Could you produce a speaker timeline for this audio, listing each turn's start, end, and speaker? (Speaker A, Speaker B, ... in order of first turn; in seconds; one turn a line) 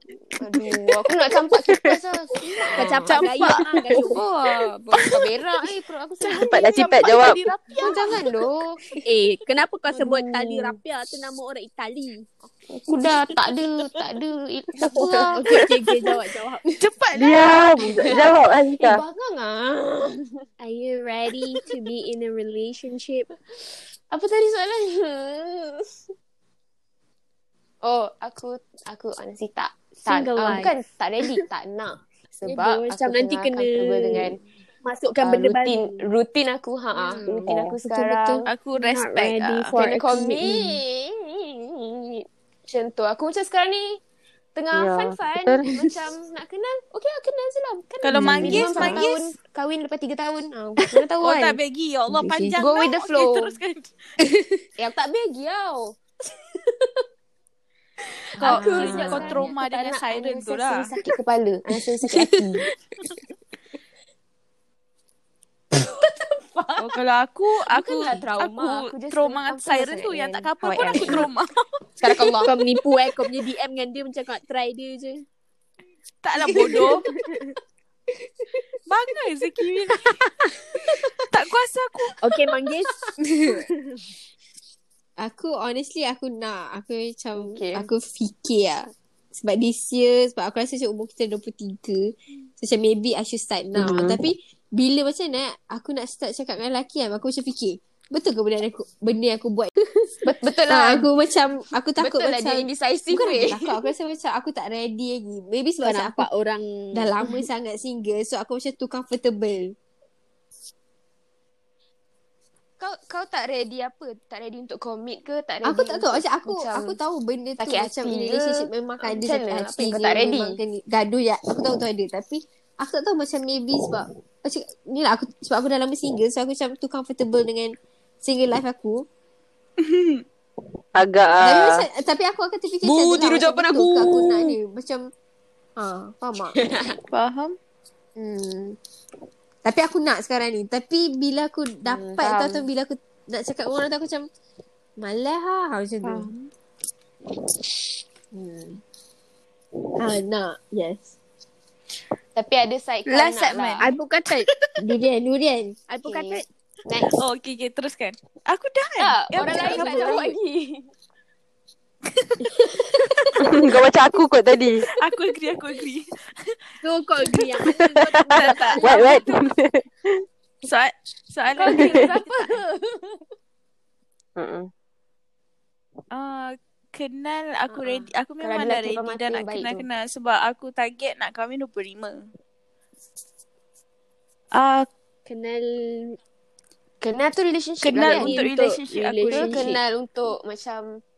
Speaker A: 0.4-6.6
Speaker B: 2.7-4.2
Speaker C: 3.1-3.6
Speaker C: 6.2-8.0
Speaker D: 6.4-7.4
Speaker B: 7.8-8.1
Speaker A: 7.8-8.8
Speaker B: 9.0-12.2
Speaker A: 9.9-10.8
Speaker A: 12.5-15.6
Speaker D: 14.8-15.5
Speaker B: 14.9-16.6
Speaker C: 16.8-18.1
Speaker D: 17.1-19.0
Speaker A: 17.4-20.3
Speaker B: 20.6-23.3
Speaker A: 24.1-25.8
Speaker A: 27.8-34.4
Speaker B: 30.1-30.7
Speaker B: 32.4-36.0
Speaker A: 35.2-38.5
Speaker B: 37.0-37.4
Speaker E: 37.2-38.4
Speaker D: 37.5-37.8
Speaker C: 38.5-39.7
Speaker B: 38.8-40.4
Speaker A: 39.7-44.0
Speaker E: 40.5-40.7
Speaker A: 44.5-51.6
Speaker D: 44.7-46.0
Speaker C: 48.0-49.3
Speaker E: 48.1-49.0
Speaker C: 51.2-53.9
Speaker E: 52.2-52.5
Speaker A: 52.6-53.5
Speaker E: 54.2-54.6
Speaker A: 54.8-56.0
Speaker C: 58.4-60.9
Speaker A: 58.4-62.7
Speaker B: 58.4-59.4
Speaker A: 66.3-66.9
Speaker C: 66.8-72.3
Speaker A: 67.7-71.3
Speaker A: 72.0-72.6
Speaker B: 72.4-75.2
Speaker C: 76.2-77.1
Speaker B: 76.6-76.9
Speaker C: 78.9-82.2
Speaker B: 82.2-83.0
Speaker E: 83.2-83.6
Speaker E: 85.2-100.1
Speaker A: 87.4-87.8
Speaker D: 93.8-94.2
Speaker A: 100.2-101.1
Speaker E: 100.7-106.3
Speaker A: 102.0-103.8
Speaker B: 105.8-107.1
Speaker E: 106.9-109.7
Speaker A: 112.8-117.0
Speaker E: 115.6-129.0
Speaker A: 117.6-120.6
Speaker C: 129.8-130.2
Speaker D: 130.9-131.8
Speaker E: 131.4-135.1
Speaker A: 132.8-134.6
Speaker E: 135.8-136.6
Speaker A: 136.6-137.0
Speaker C: 137.1-137.5
Speaker E: 138.2-138.8
Speaker E: 139.6-144.3
Speaker A: 141.8-142.7
Speaker E: 145.0-146.3
Speaker E: 148.3-148.8
Speaker E: 150.0-151.2
Speaker A: 152.3-153.9
Speaker C: 153.1-153.8
Speaker B: 153.8-154.5
Speaker E: 154.8-155.8
Speaker B: 155.9-156.4
Speaker A: 156.0-157.1
Speaker C: 157.1-160.3
Speaker A: 159.0-160.9
Speaker B: 159.4-160.3
Speaker C: 162.1-162.9
Speaker E: 163.3-163.6
Speaker D: 163.4-164.9
Speaker C: 165.0-166.5
Speaker B: 166.8-169.4
Speaker D: 167.6-170.2
Speaker C: 168.3-169.3
Speaker C: 170.6-172.6
Speaker B: 171.6-173.2
Speaker D: 171.8-172.1
Speaker D: 174.4-174.7
Speaker C: 176.1-182.3
Speaker A: 177.7-179.8
Speaker C: 184.5-184.9
Speaker B: 185.2-186.2
Speaker A: 187.0-188.4
Speaker C: 187.8-189.8
Speaker B: 187.9-189.8
Speaker A: 189.3-191.0